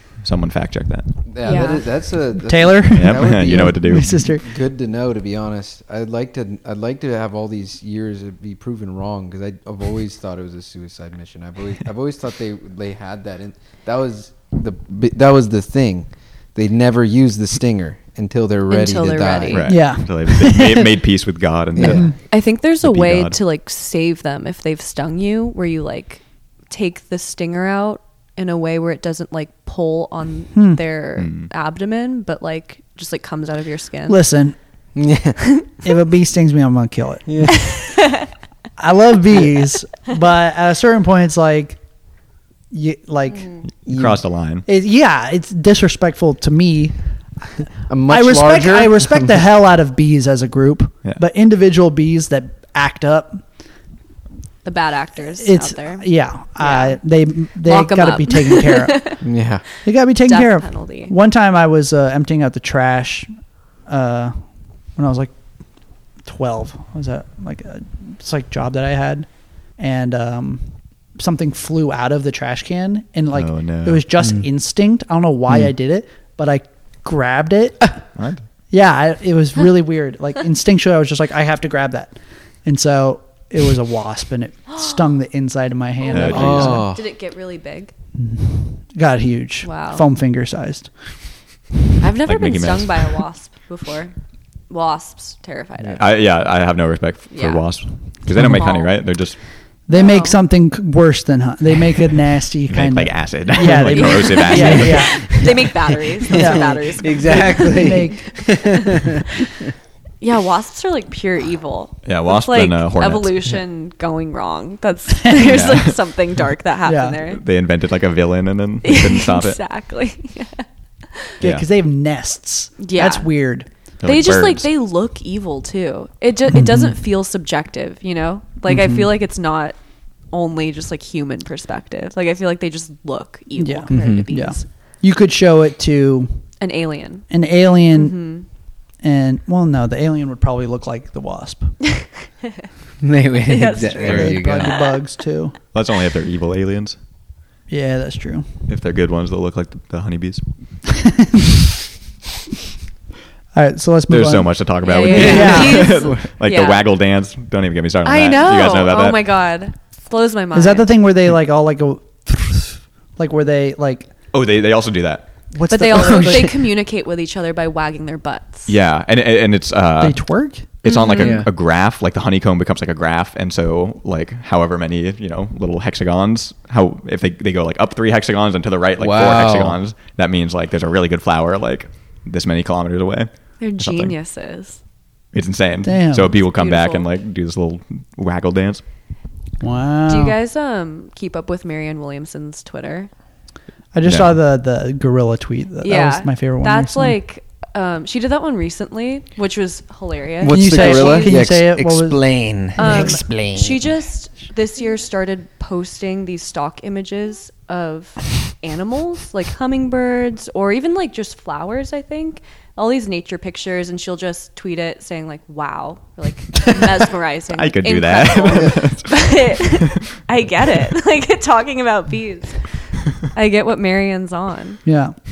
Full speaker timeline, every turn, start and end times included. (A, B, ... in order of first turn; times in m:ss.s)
0:00.2-0:01.2 A
0:01.3-0:19.7 B
0:01.4-0:01.9 C
0:02.4-0:04.5 D
0:02.9-0:04.3 A
0:18.7-0:19.7 C
0:19.5-0:23.4 A
0:19.7-0:20.8 D
0:21.8-0:22.1 B
0:21.8-0:22.2 D
0:22.3-0:34.2 C
0:30.6-0:30.8 D
0:31.2-0:31.5 A
0:34.1-0:34.6 D
0:35.0-0:35.6 B
0:35.8-0:37.6 D
0:37.3-0:37.8 B
0:37.5-0:38.3 C
0:38.8-0:41.8 D
0:42.7-0:43.6 D
0:43.3-0:43.7 C
0:43.9-0:44.2 B
0:43.9-0:44.7 A
0:44.7-0:47.0 D
0:47.9-0:49.2 B
0:48.1-0:53.4 D
0:54.6-0:56.1 C
0:55.4-0:59.2 D
0:56.6-0:57.0 C
0:57.6-0:59.2 C
0:59.2-0:59.8 B
0:59.8-1:03.3 D
1:00.3-1:01.1 C
1:03.9-1:04.4 D
1:05.0-1:05.3 D
1:06.2-1:18.0 D
1:13.3-1:14.0 A
1:18.2-1:18.4 A
1:18.7-1:26.9 D
1:26.0-1:27.9 C
1:26.1-1:26.8 A
1:26.2-1:27.0 B
1:28.2-1:30.9 D
1:29.6-1:30.1 C
1:32.0-1:34.1 C
1:32.2-1:33.2 A
1:34.7-1:36.0 C
1:36.0-1:39.4 A
1:37.3-1:37.7 C
1:38.4-1:38.7 D
1:38.5-1:38.9 C
1:39.9-1:48.3 D
1:39.9-1:40.4 C
1:42.7-1:45.3 A
1:43.9-1:48.0 C
1:46.3-1:49.7 B
1:48.7-1:49.0 C
1:50.2-1:57.4 C
1:52.0-1:53.4 A
1:55.2-1:55.6 D
1:55.4-1:56.0 A
1:56.9-1:57.2 D
1:57.3-1:59.6 A
1:58.8-2:01.4 C
2:01.4-2:01.7 A
2:01.4-2:03.7 D
2:02.8-2:03.3 C
2:04.0-2:04.7 A
2:04.0-2:09.8 C
2:06.5-2:06.9 D
2:08.7-2:09.1 D
2:10.3-2:14.6 C
2:13.6-2:16.4 D
2:13.9-2:14.3 B
2:16.6-2:17.3 C
2:17.3-2:18.2 D
2:17.9-2:18.5 C
2:19.0-2:21.8 D
2:23.0-2:24.9 B
2:23.4-2:24.8 C
2:24.0-2:25.6 D
2:24.0-2:24.3 A
2:25.7-2:27.0 A
2:27.7-2:28.5 D
2:28.7-2:30.4 A
2:31.0-2:31.4 D
2:33.5-2:34.5 D
2:34.1-2:39.2 A
2:34.8-2:36.8 C
2:35.1-2:35.9 D
2:35.1-2:36.2 B
2:38.0-2:40.9 C
2:40.5-2:44.1 D
2:44.3-2:45.3 A
2:45.5-2:46.6 D
2:45.7-2:48.7 C
2:48.7-2:50.2 A
2:50.0-2:50.7 D
2:50.8-3:04.2 A
2:50.8-2:51.4 C
2:51.2-2:51.5 B
2:59.0-2:59.8 B
3:03.6-3:04.8 C
3:05.3-3:08.8 A
3:05.8-3:06.3 D
3:06.4-3:07.1 C
3:09.6-3:10.4 D
3:10.1-3:13.1 C
3:13.9-3:17.2 D
3:14.0-3:14.4 A
3:15.8-3:21.4 C
3:20.4-3:23.8 B
3:20.5-3:23.2 D
3:22.8-3:44.8 C
3:37.5-3:39.8 A
3:44.8-3:45.2 D